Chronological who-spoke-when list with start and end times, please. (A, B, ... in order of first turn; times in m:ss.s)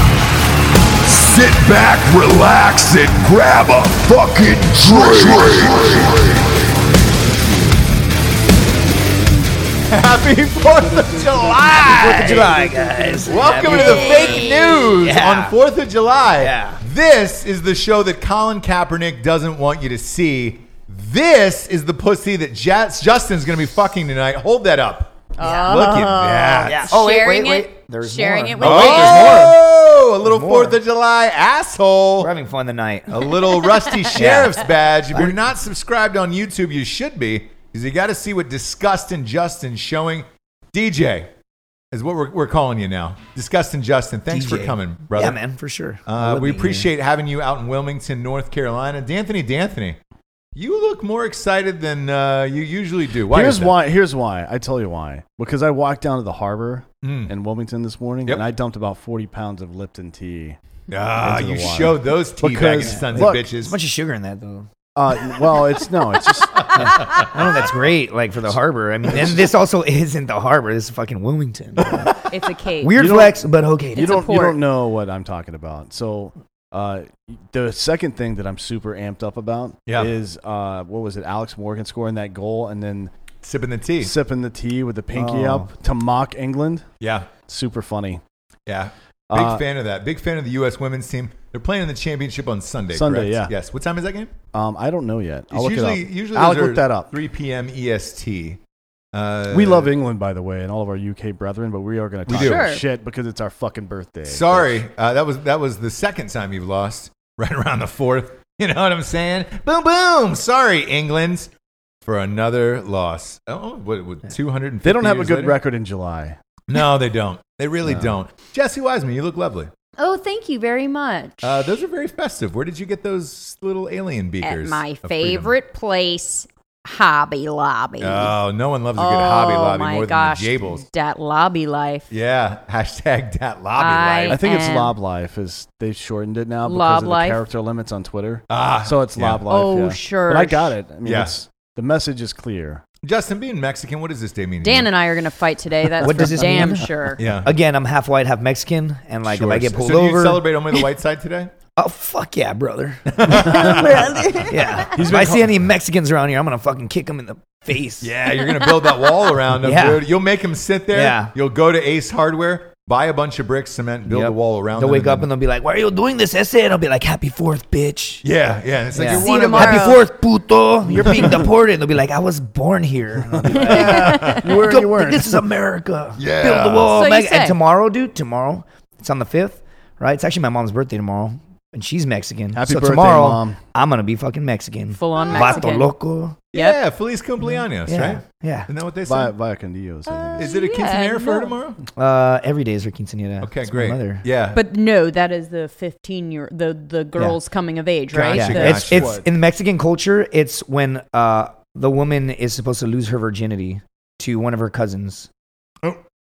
0:01.0-0:06.4 A
0:09.9-0:12.6 B
0:11.7-0:15.6 C
0:11.9-0:13.2 D
0:13.2-0:27.0 B
0:13.6-0:14.9 E
0:16.4-0:16.8 C
0:25.4-0:29.6 E
0:25.4-0:25.9 C
0:26.6-0:29.6 C
0:28.6-0:32.3 B
0:30.2-0:30.8 C
0:32.2-0:33.2 C
0:33.1-0:41.3 B
0:33.5-0:34.5 E
0:34.2-0:34.6 C
0:35.1-0:35.4 C
0:41.9-0:45.4 B
0:44.3-0:46.9 C
0:46.1-0:50.0 B
0:50.6-0:53.8 B
0:53.3-1:00.6 D
0:57.0-0:57.3 B
1:00.9-1:03.8 B
1:01.2-1:03.4 D
1:02.8-1:04.7 C
1:05.0-1:06.7 D
1:06.8-1:12.2 C
1:06.8-1:07.2 B
1:09.1-1:09.5 D
1:12.3-1:13.0 E
1:12.8-1:14.2 C
1:13.0-1:23.1 D
1:13.9-1:14.6 E
1:19.9-1:20.2 B
1:23.4-1:24.2 B
1:24.0-1:26.9 D
1:25.1-1:25.7 C
1:27.0-1:27.3 B
1:27.5-1:28.2 D
1:28.7-1:34.4 B
1:29.3-1:29.6 D
1:32.9-1:33.5 D
1:34.5-1:37.1 D
1:35.5-1:38.6 B
1:39.1-1:39.9 B
1:39.5-1:44.8 D
1:42.3-1:42.8 B
1:42.3-1:42.8 E
1:44.3-1:51.5 B
1:52.0-1:55.6 B
1:54.8-1:56.4 D
1:56.7-1:59.7 B
1:57.8-1:58.2 D
2:00.0-2:01.7 E
2:01.4-2:05.5 B
2:04.4-2:08.4 E
2:08.0-2:10.8 B
2:09.0-2:12.1 E
2:12.1-2:14.4 B
2:13.8-2:15.0 E
2:14.3-2:22.8 D
2:16.6-2:17.4 E
2:18.5-2:19.5 B
2:19.5-2:20.8 E
2:21.0-2:21.4 B
2:23.0-2:25.0 B
2:24.6-2:27.2 E
2:26.0-2:30.9 C
2:26.6-2:26.8 D
2:27.2-2:27.5 B
2:29.3-2:31.5 B
2:31.8-2:38.1 C
2:33.1-2:34.0 B
2:33.4-2:33.8 D
2:33.5-2:34.8 E
2:34.8-2:35.7 D
2:38.0-2:45.3 B
2:38.5-2:39.2 E
2:39.6-2:40.0 C
2:40.9-2:41.3 C
2:44.1-2:48.2 C
2:48.2-2:50.0 B
2:48.9-3:06.4 C
2:49.2-2:50.0 E
2:53.4-2:55.4 D
2:53.5-2:54.4 E
2:53.7-2:54.5 B
2:56.2-2:57.0 B
2:56.9-2:57.6 E
3:02.5-3:03.6 D
3:04.9-3:06.0 E
3:06.5-3:09.3 B
3:06.5-3:06.8 E
3:07.8-3:08.7 C
3:09.1-3:10.6 D
3:10.1-3:11.6 E
3:10.4-3:11.8 B
3:12.0-3:14.3 C
3:13.4-3:14.6 B
3:14.5-3:18.9 E
3:18.1-3:19.2 B
3:18.3-3:25.3 C
3:18.9-3:19.3 D